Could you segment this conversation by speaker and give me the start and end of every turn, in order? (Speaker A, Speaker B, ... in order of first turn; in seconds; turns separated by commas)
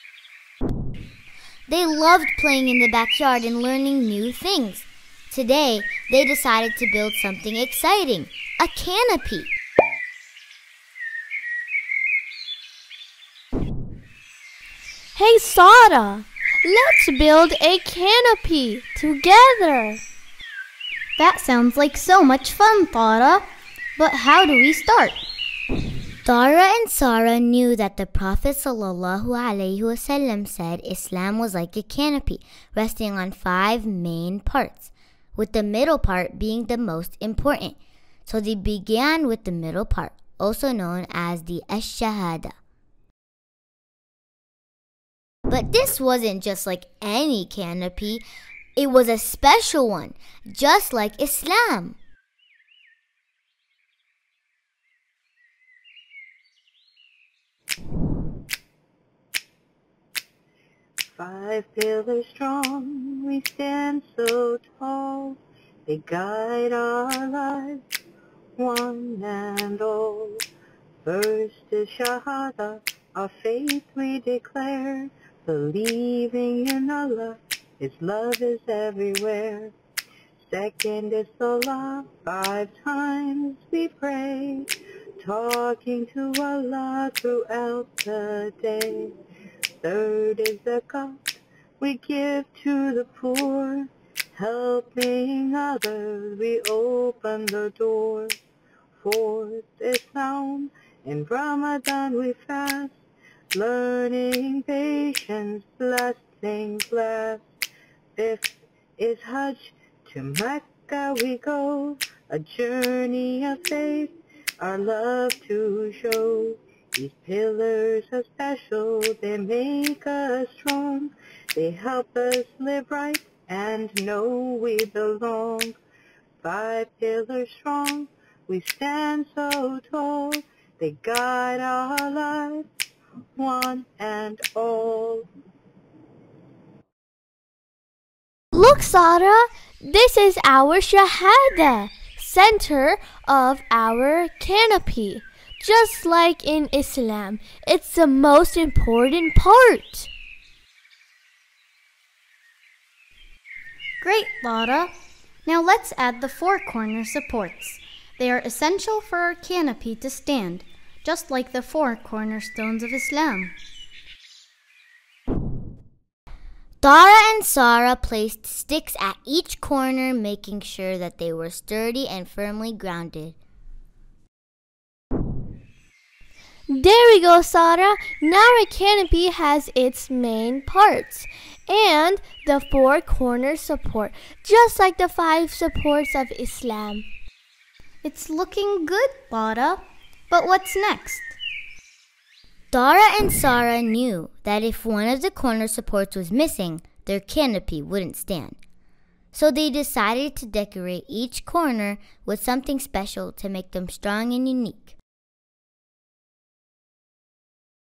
Speaker A: 1.7-9.5, Speaker B: 15.2-20.0, Speaker C: 21.2-23.4, Speaker C: 24.0-25.2, Speaker A: 26.2-42.5, Speaker A: 45.5-48.2, Speaker A: 48.8-52.0, Speaker D: 61.1-67.8, Speaker D: 68.6-70.4, Speaker D: 71.0-79.7, Speaker D: 80.4-89.1, Speaker D: 89.8-98.4, Speaker D: 99.0-103.0, Speaker D: 103.5-107.4, Speaker D: 108.2-125.8, Speaker D: 126.4-132.7, Speaker D: 133.4-135.3, Speaker B: 138.5-150.1, Speaker C: 154.0-154.9, Speaker C: 155.4-163.5, Speaker A: 166.8-173.4, Speaker B: 176.7-187.1, Speaker C: 188.0-191.3, Speaker A: 192.7-198.6, Speaker A: 199.3-204.9